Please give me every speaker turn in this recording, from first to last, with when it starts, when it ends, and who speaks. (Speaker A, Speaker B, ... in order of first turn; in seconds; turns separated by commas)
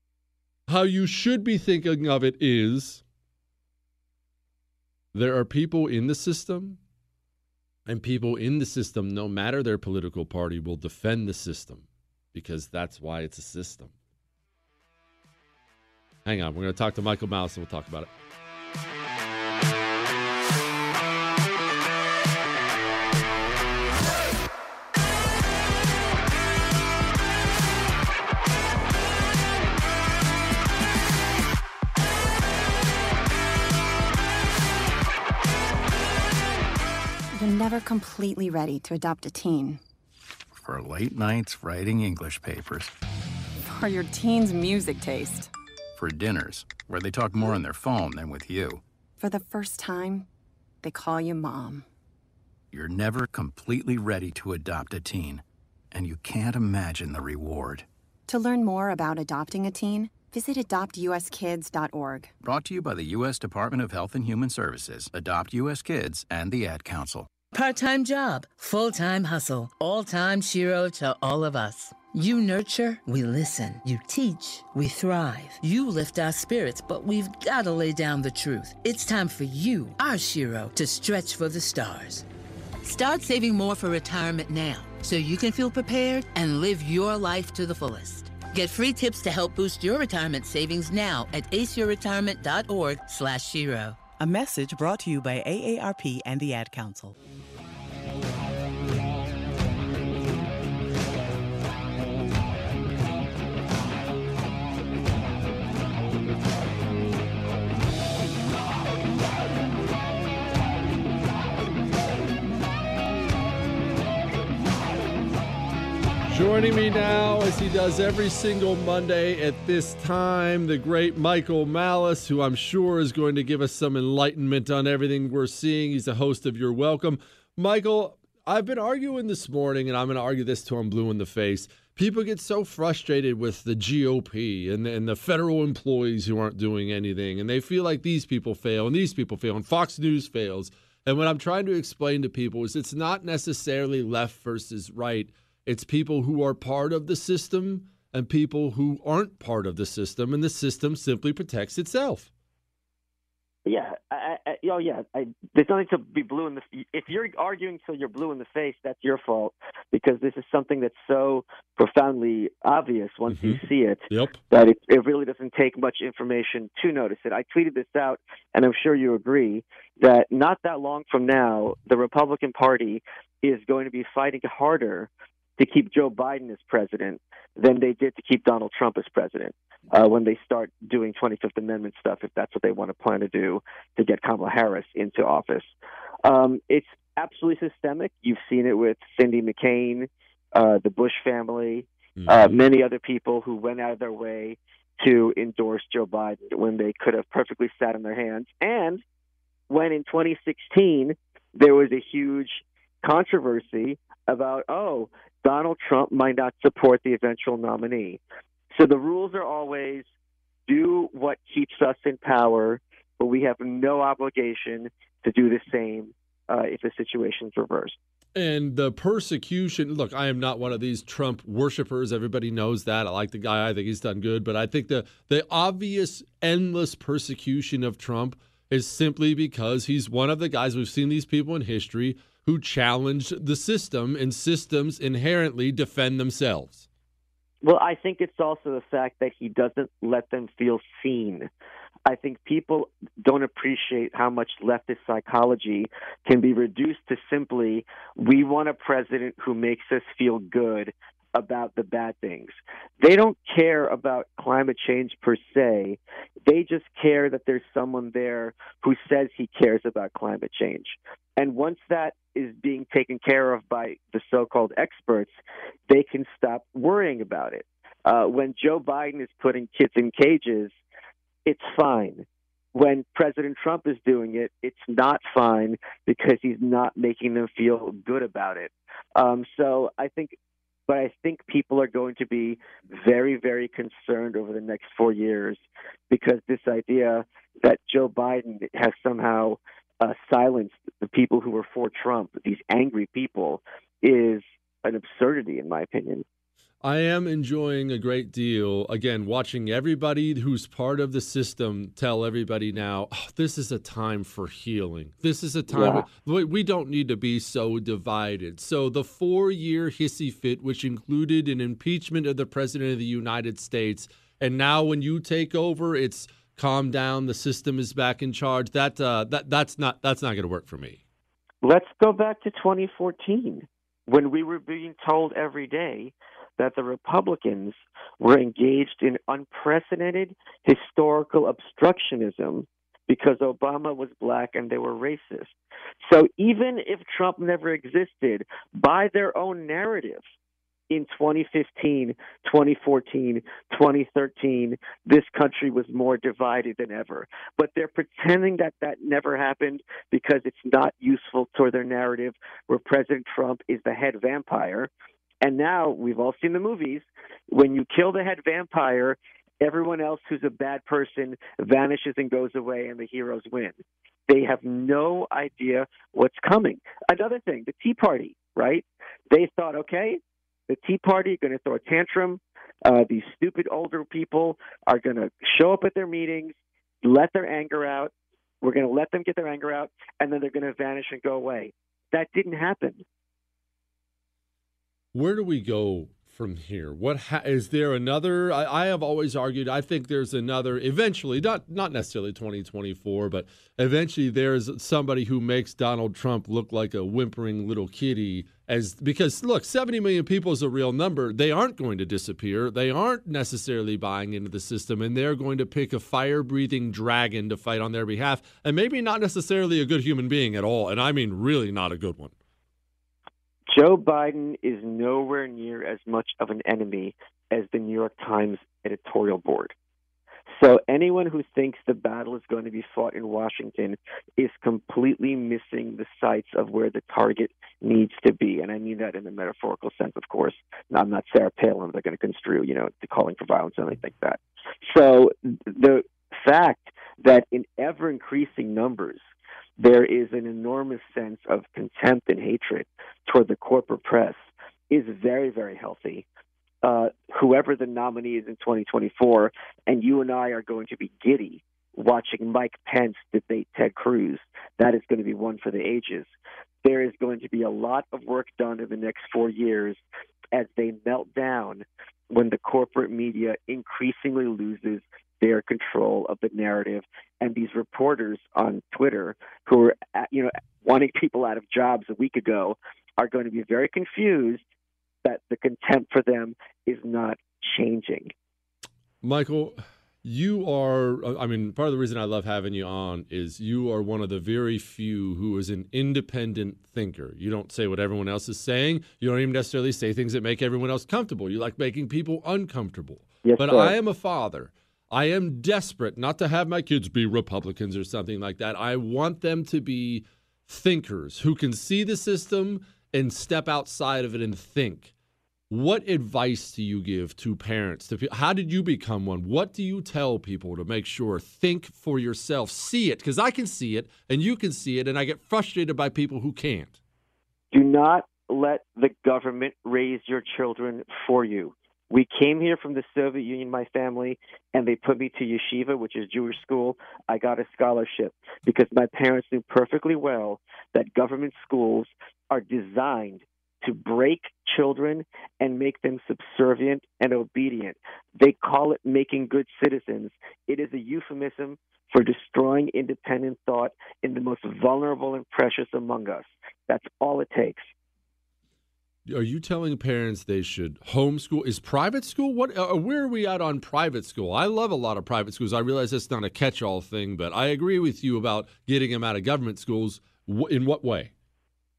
Speaker A: 0.7-3.0, Speaker A: 5.1-6.8, Speaker A: 7.9-13.9, Speaker A: 16.2-18.1, Speaker B: 37.3-39.8, Speaker C: 40.5-42.9, Speaker B: 43.6-45.5, Speaker C: 46.0-48.8, Speaker B: 49.2-50.3, Speaker B: 50.8-51.8, Speaker C: 52.7-57.9, Speaker B: 58.3-62.3, Speaker C: 62.4-67.3, Speaker D: 67.5-82.2, Speaker D: 82.8-94.1, Speaker E: 94.2-97.1, Speaker A: 116.3-152.3, Speaker F: 153.7-185.7, Speaker A: 163.3-164.4, Speaker F: 186.2-199.0, Speaker A: 192.2-192.6, Speaker F: 199.7-208.2, Speaker F: 208.7-210.1, Speaker F: 210.7-218.0, Speaker A: 218.3-236.9, Speaker F: 237.6-241.5, Speaker F: 242.1-265.3, Speaker F: 265.9-270.7, Speaker F: 271.4-280.3, Speaker F: 280.9-296.2, Speaker A: 296.8-321.0, Speaker F: 305.7-306.1, Speaker F: 321.6-335.5, Speaker F: 336.1-340.2, Speaker F: 340.9-354.9, Speaker F: 355.4-383.0, Speaker A: 385.1-412.3, Speaker F: 413.7-419.7, Speaker F: 420.6-439.2, Speaker F: 439.8-446.2, Speaker F: 446.8-456.3, Speaker F: 456.8-460.0, Speaker F: 460.5-474.6, Speaker F: 475.2-478.3, Speaker A: 479.2-505.1, Speaker F: 493.4-493.7, Speaker A: 505.7-517.0, Speaker F: 517.7-547.9, Speaker A: 549.2-561.3